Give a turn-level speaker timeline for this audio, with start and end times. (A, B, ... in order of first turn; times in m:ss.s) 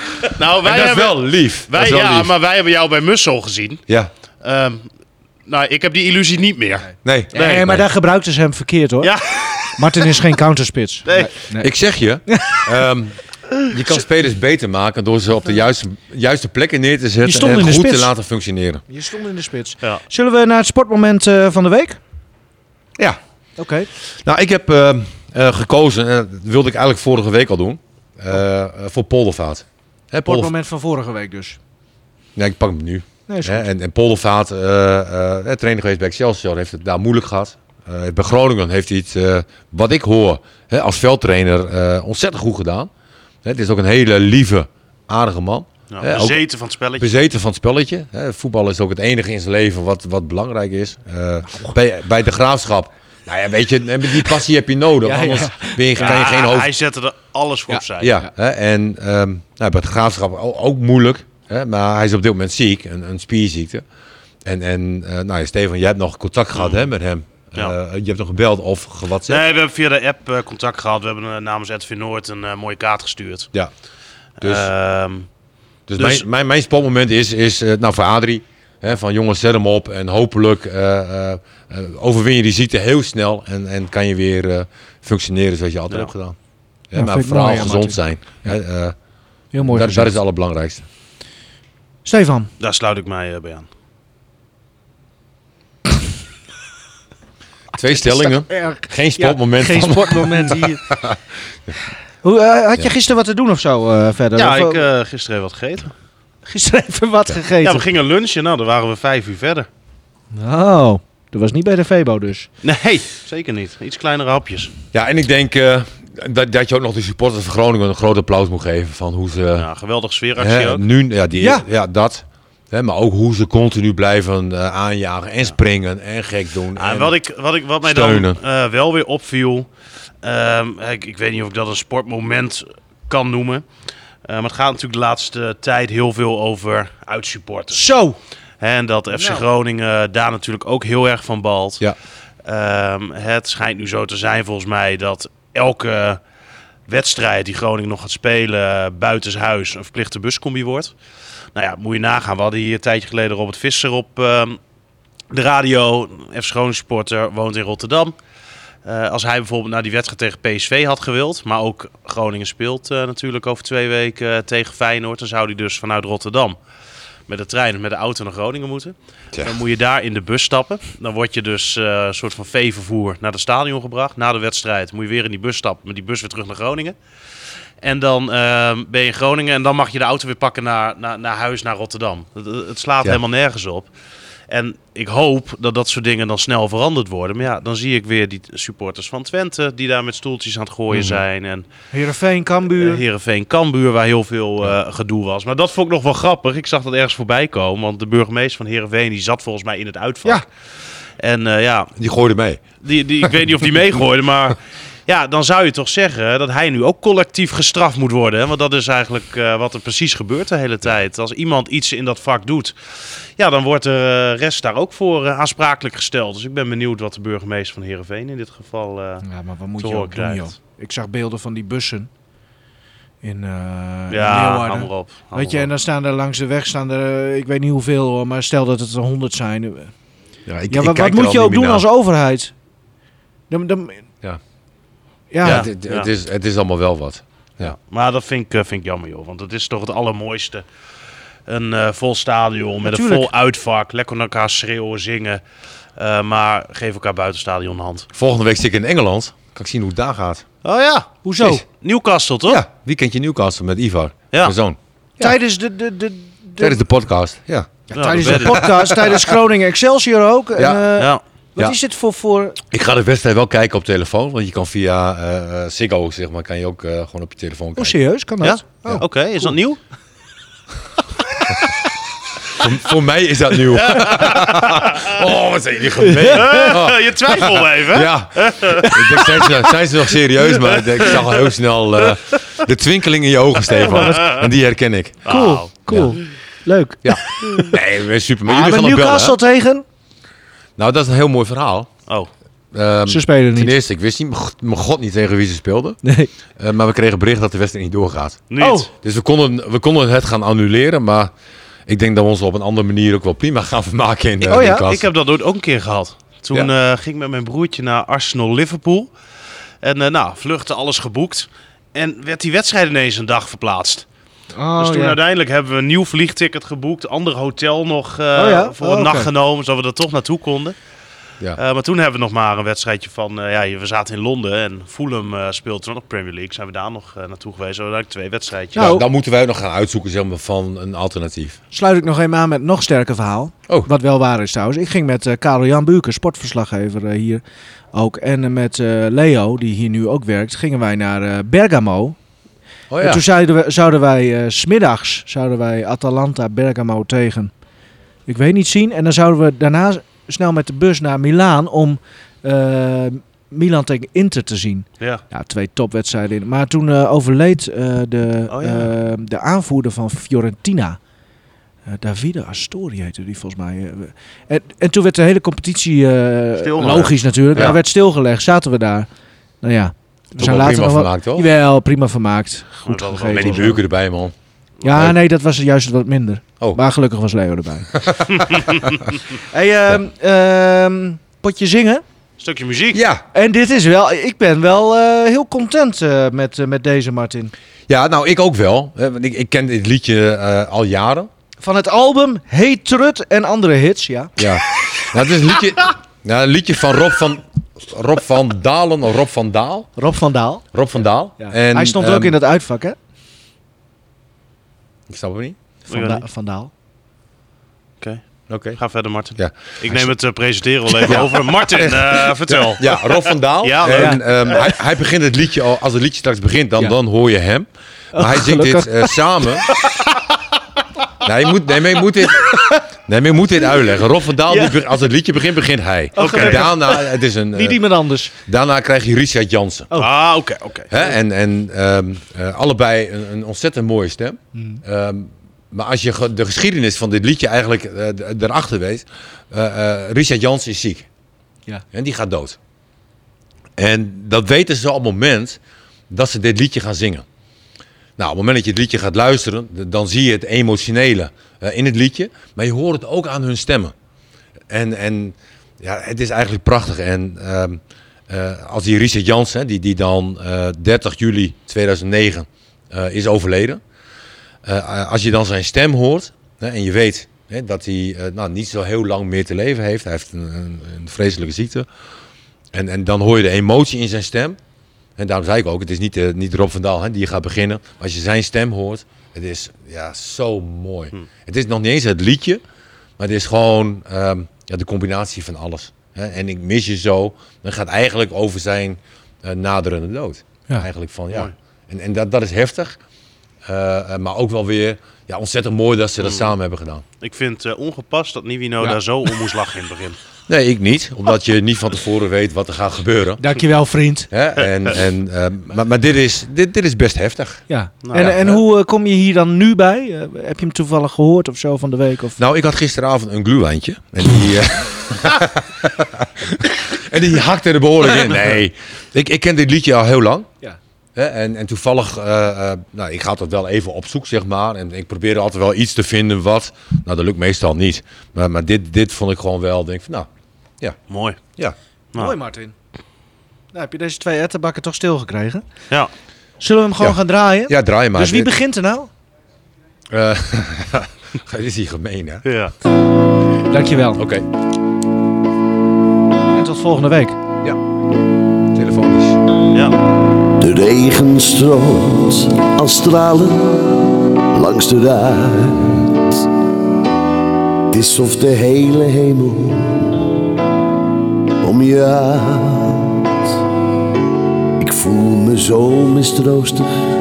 0:00.2-0:03.8 A
0:00.6-0:02.3 B
0:04.4-0:04.8 A
0:05.5-0:07.5 A
0:07.0-0:07.9 B
0:07.3-0:09.1 C
0:09.0-0:10.1 A
0:09.8-0:11.7 C
0:11.1-0:11.3 A
0:11.6-0:18.8 B
0:12.3-0:12.7 C
0:17.2-0:18.1 C
0:18.9-0:22.0 C
0:23.6-0:23.9 C
0:24.0-0:30.5 B
0:30.2-0:31.6 C
0:32.4-0:42.9 B
0:33.3-0:33.7 C
0:43.4-0:46.4 B
0:45.9-0:47.1 A
0:47.0-0:56.7 B
0:55.0-0:56.2 C
0:56.0-0:58.2 A
0:57.7-0:58.3 C
0:58.0-1:03.8 B
1:04.4-1:09.4 B
1:06.6-1:06.8 A
1:09.3-1:13.5 A
1:14.4-1:15.3 A
1:14.4-1:14.7 B
1:15.9-1:26.4 B
1:16.0-1:16.2 A
1:26.9-1:29.0 B
1:27.0-1:28.5 C
1:29.5-1:30.2 C
1:29.6-1:30.8 B
1:32.0-1:32.5 C
1:32.6-1:33.7 A
1:37.8-1:41.7 B
1:38.0-1:40.9 C
1:42.2-1:44.8 C
1:44.4-1:45.9 A
1:46.5-1:47.9 C
1:47.6-1:49.7 A
1:50.3-1:52.5 C
1:52.6-1:54.7 A
1:54.9-1:59.7 B
1:59.6-2:00.8 A
2:00.4-2:07.1 B
2:01.4-2:01.6 C
2:06.8-2:09.7 A
2:07.8-2:08.4 B
2:10.2-2:13.6 A
2:14.2-2:17.9 A
2:17.7-2:18.2 C
2:18.6-2:21.9 A
2:19.1-2:19.4 C
2:22.4-2:26.2 A
2:26.9-2:30.9 A
2:31.6-2:34.6 A
2:35.3-2:38.2 A
2:38.8-2:46.6 A
2:47.3-2:57.0 A
2:57.8-3:03.9 A
3:04.5-3:11.7 A
3:10.9-3:11.2 B
3:11.9-3:13.0 C
3:12.8-3:20.4 A
3:21.2-3:21.9 A
3:22.0-3:22.6 B
3:22.8-3:32.8 A
3:33.4-3:39.2 A
3:39.2-3:42.1 C
3:39.8-3:40.5 A
3:43.2-3:49.9 C
3:44.1-3:45.7 A
3:50.5-3:51.8 B
3:50.7-3:52.5 C
3:53.5-3:54.1 C
3:55.3-3:55.7 C
3:55.4-3:57.8 B
3:55.4-3:56.1 A
3:57.8-4:00.6 A
4:01.5-4:05.4 A
4:02.8-4:03.3 C
4:06.0-4:08.1 A
4:08.1-4:10.4 B
4:10.6-4:12.6 A
4:11.2-4:11.6 C
4:12.5-4:15.4 B
4:15.2-4:16.8 C
4:16.6-4:19.4 B
4:17.9-4:22.6 C
4:17.9-4:18.6 A
4:20.6-4:20.9 B
4:22.7-4:28.0 B
4:27.8-4:29.1 C
4:28.4-4:29.8 A
4:32.5-4:45.4 B
4:33.8-4:35.2 A
4:36.0-4:36.7 C
4:36.2-4:39.2 A
4:40.6-4:41.4 A
4:43.8-4:44.5 A
4:43.8-4:44.4 C
4:45.3-4:46.1 A
4:45.3-4:47.8 C
4:45.9-4:46.1 B
4:47.0-4:49.4 B
4:48.5-4:49.8 C
4:50.8-4:51.9 B
4:52.7-4:56.0 B
4:53.1-4:53.8 C
4:56.0-4:56.3 C
4:56.6-5:01.3 B
4:58.5-4:58.9 A
4:58.6-4:58.9 C
5:01.9-5:05.1 B
5:04.4-5:04.8 C
5:04.6-5:09.1 A
5:09.8-5:14.0 A
5:14.6-5:15.2 C
5:14.8-5:20.8 A
5:18.4-5:19.3 C
5:21.6-5:29.0 A
5:28.8-5:29.1 C
5:28.8-5:31.6 B
5:31.7-5:37.4 C
5:37.9-5:42.2 C
5:42.9-5:43.2 B
5:43.0-5:47.5 C
5:48.3-6:01.0 C
5:58.5-5:58.9 A
6:01.9-6:09.1 C
6:06.6-6:07.8 A
6:07.6-6:07.8 B
6:09.6-6:13.8 C
6:10.4-6:11.5 B
6:12.8-6:13.8 A
6:13.3-6:14.3 B
6:14.8-6:18.0 C
6:14.9-6:15.2 B
6:18.0-6:18.7 B
6:18.5-6:19.0 A
6:19.5-6:22.0 C
6:22.4-6:23.0 A
6:22.9-6:23.2 B
6:23.3-6:27.5 C
6:27.9-6:31.3 B
6:31.6-6:34.4 C
6:34.4-6:39.9 B
6:40.0-6:40.6 C
6:40.7-6:42.4 B
6:41.4-6:43.0 C
6:45.1-6:45.6 B
6:45.9-6:46.7 C
6:45.9-6:46.2 A
6:48.5-6:48.8 B
6:48.8-6:54.7 A
6:49.4-6:50.1 B
6:51.0-6:59.7 B
6:53.8-6:54.7 C
6:58.1-7:00.1 C
7:01.2-7:07.8 B
7:02.5-7:02.8 C
7:04.5-7:04.8 C
7:06.2-7:06.6 A
7:06.2-7:08.3 C
7:08.5-7:09.9 B
7:10.0-7:10.9 A
7:10.9-7:21.1 B
7:14.6-7:14.8 C
7:21.9-7:22.6 B
7:23.8-7:25.6 B
7:26.1-7:27.2 B
7:28.2-7:33.9 B
7:34.7-7:43.8 B
7:44.6-7:51.9 B
7:52.7-7:54.6 B
7:55.2-8:02.6 B
8:03.2-8:13.0 B
8:13.7-8:17.0 B
8:16.2-8:16.5 A
8:17.2-8:20.2 A
8:20.5-8:23.4 B
8:23.4-8:24.3 C
8:24.3-8:28.6 B
8:27.7-8:32.4 C
8:28.0-8:28.3 A
8:32.4-8:40.5 B
8:41.2-8:50.3 B
8:51.1-8:51.4 A
8:52.2-8:52.7 C
8:53.7-8:55.7 C
8:56.6-8:59.1 C
8:57.0-8:58.5 B
9:00.1-9:02.5 B
9:02.5-9:02.7 A
9:03.7-9:04.2 C
9:04.2-9:04.5 B
9:06.5-9:07.4 C
9:08.7-9:09.4 B
9:10.6-9:16.4 D
9:17.9-9:20.2 D
9:21.6-9:23.3 D
9:24.8-9:26.9 D